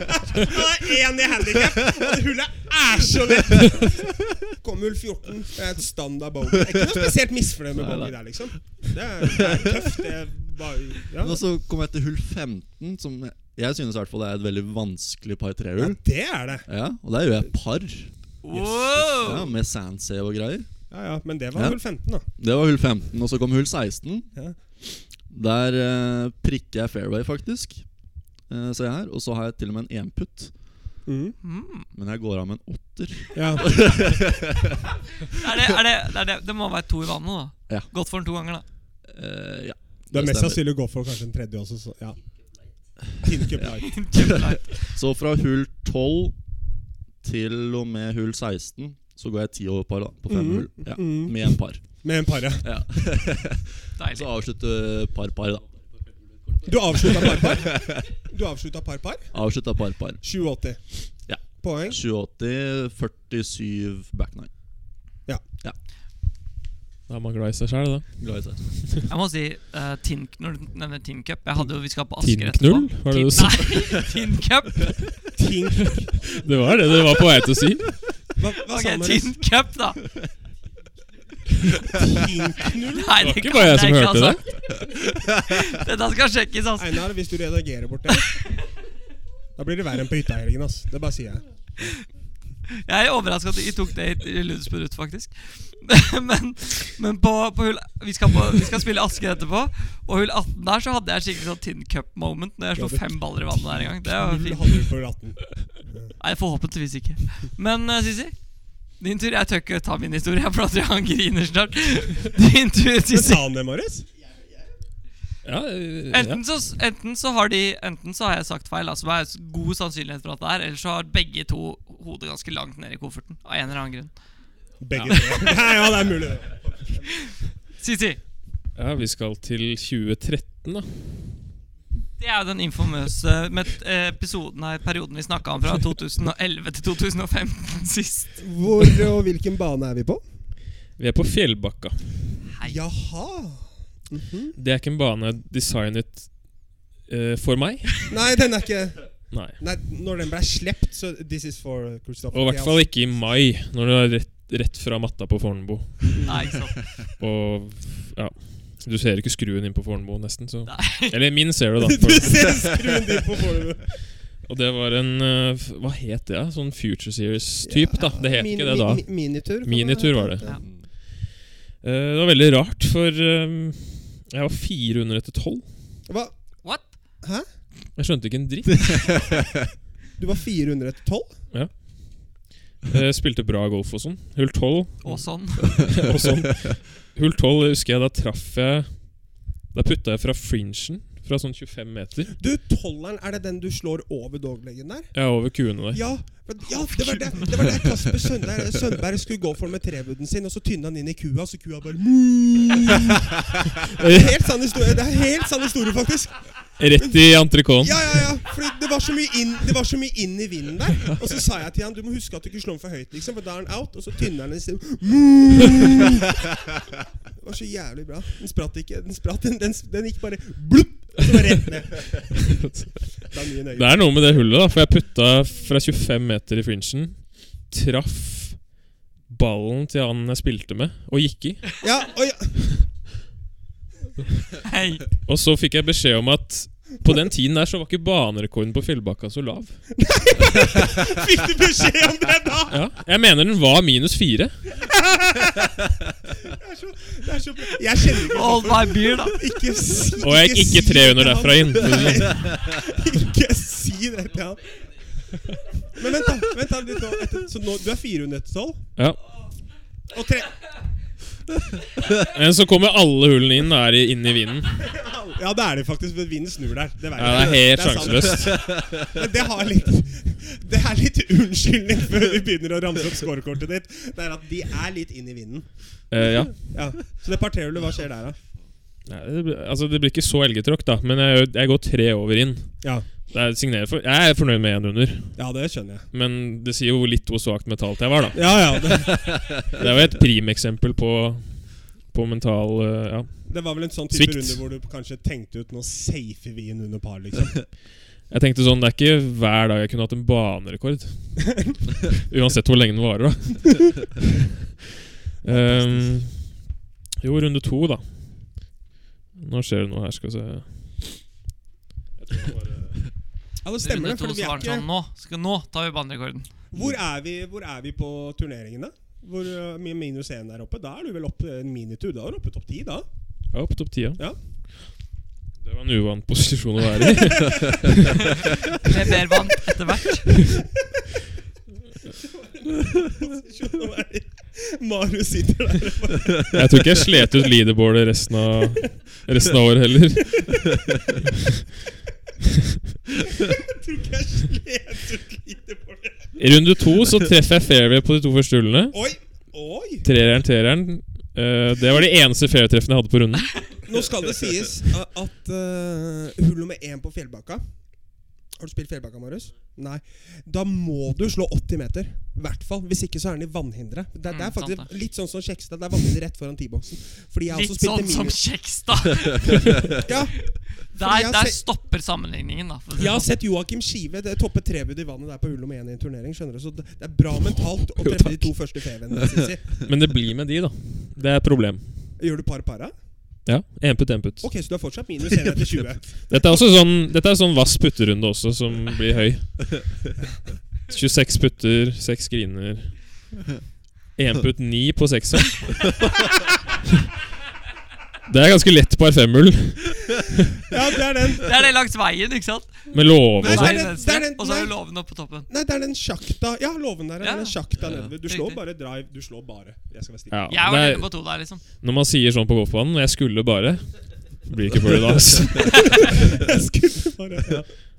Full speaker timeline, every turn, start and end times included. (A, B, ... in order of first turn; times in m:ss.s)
0:00.2-0:11.4 A
0:03.5-0:04.0 B
0:06.7-0:07.2 B
0:07.7-0:08.2 B
0:09.2-0:10.0 B
0:11.2-0:16.0 B
0:15.8-0:16.7 A
0:16.7-0:20.7 B
0:18.4-0:19.5 C
0:20.9-0:22.2 A
0:21.5-0:24.3 B
0:25.3-0:27.8 B
0:28.5-0:30.5 B
0:31.0-0:31.4 A
0:31.4-0:31.9 C
0:31.9-0:34.9 B
0:33.3-0:33.7 A
0:35.3-0:38.6 C
0:39.1-0:40.6 B
0:40.1-0:42.2 A
0:43.2-0:44.0 A
0:43.8-0:45.0 C
0:44.1-0:46.4 B
0:47.2-0:52.0 B
0:50.3-0:52.7 A
0:52.6-0:55.7 B
0:54.0-0:54.3 C
0:56.6-0:59.3 A
0:56.9-0:58.0 B
0:59.3-1:00.2 B
1:00.2-1:02.0 A
1:01.2-1:04.5 B
1:07.1-1:09.0 D
1:08.2-1:08.6 B
1:09.1-1:15.2 C
1:12.2-1:14.0 D
1:15.4-1:16.3 A
1:15.8-1:18.0 D
1:18.4-1:19.4 A
1:18.7-1:20.0 C
1:21.9-1:23.4 A
1:22.8-1:24.8 C
1:23.2-1:24.4 D
1:25.2-1:25.5 B
1:25.4-1:27.0 C
1:26.8-1:28.4 A
1:28.1-1:28.4 C
1:29.6-1:31.4 A
1:32.8-1:44.9 C
1:43.6-1:46.1 A
1:46.2-1:48.4 C
1:49.0-1:53.5 C
1:53.1-1:54.1 A
1:55.4-1:56.4 D
1:56.1-2:04.1 C
2:04.8-2:07.1 A
2:04.9-2:05.3 D
2:05.1-2:05.9 C
2:07.0-2:08.2 C
2:08.8-2:11.3 D
2:12.2-2:18.4 C
2:18.4-2:20.2 A
2:21.0-2:22.1 D
2:22.5-2:22.8 C
2:22.6-2:24.6 A
2:24.6-2:28.1 D
2:28.1-2:32.9 A
2:29.3-2:29.6 D
2:32.3-2:36.3 D
2:36.1-2:36.4 A
2:36.2-2:37.1 C
2:37.2-2:42.8 D
2:40.7-2:41.2 C
2:41.8-2:43.9 A
2:44.4-2:50.4 D
2:47.6-2:50.6 A
2:50.6-2:50.8 B
2:51.8-2:55.7 D
2:56.1-2:56.3 A
2:56.6-2:56.9 C
2:58.0-2:59.1 D
3:00.2-3:01.4 A
3:01.5-3:12.3 D
3:05.0-3:05.9 C
3:12.3-3:27.2 A
3:15.1-3:16.1 D
3:23.9-3:24.3 D
3:26.8-3:28.2 D
3:27.8-3:36.4 A
3:37.4-3:42.5 A
3:42.1-3:48.7 D
3:43.2-3:44.1 A
3:49.3-3:51.8 D
3:51.8-3:52.5 A
3:54.6-3:55.1 C
3:55.2-3:59.8 D
4:00.0-4:02.8 A
4:02.7-4:04.6 D
4:05.0-4:05.7 A
4:06.4-4:14.8 A
4:08.2-4:09.5 C
4:10.2-4:12.6 D
4:15.9-4:18.9 A
4:19.0-4:19.2 D
4:20.1-4:20.5 A
4:22.2-4:24.9 D
4:24.9-4:38.4 A
4:27.1-4:28.7 D
4:28.6-4:29.0 B
4:36.1-4:37.0 D
4:39.1-4:45.4 D
4:42.8-4:43.1 A
4:45.4-4:46.1 A
4:46.1-4:54.6 D
4:48.3-4:50.2 A
4:49.1-4:49.5 B
4:53.5-4:57.7 A
4:58.3-5:04.3 D
5:05.4-5:08.7 D
5:05.4-5:06.1 A
5:09.3-5:11.2 D
5:12.2-5:13.1 D
5:13.6-5:14.8 A
5:13.8-5:16.5 C
5:16.7-5:23.0 A
5:23.5-5:24.3 D
5:25.6-5:28.3 D
5:27.4-5:27.8 A
5:28.3-5:30.5 C
5:32.2-5:36.8 A
5:36.5-5:40.8 D
5:43.4-5:46.3 A
5:46.4-5:49.0 D
5:48.9-5:50.0 A
5:50.0-5:53.8 D
5:53.8-6:08.4 A
6:04.3-6:04.9 C
6:07.5-6:13.3 C
6:09.9-6:11.6 A
6:13.0-6:19.8 A
6:17.5-6:18.5 D
6:19.8-6:22.1 D
6:22.2-6:22.9 A
6:23.4-6:24.5 D
6:24.4-6:26.3 A
6:26.3-6:30.0 D
6:30.9-6:33.0 D
6:34.2-6:36.0 D
6:38.2-6:40.6 D
6:40.7-6:41.7 A
6:41.4-6:45.5 C
6:42.9-6:44.0 D
6:43.4-6:44.8 A
6:45.5-6:50.7 A
6:47.2-6:48.6 C
6:50.3-6:56.5 D
6:50.5-6:51.6 C
6:55.8-6:57.7 A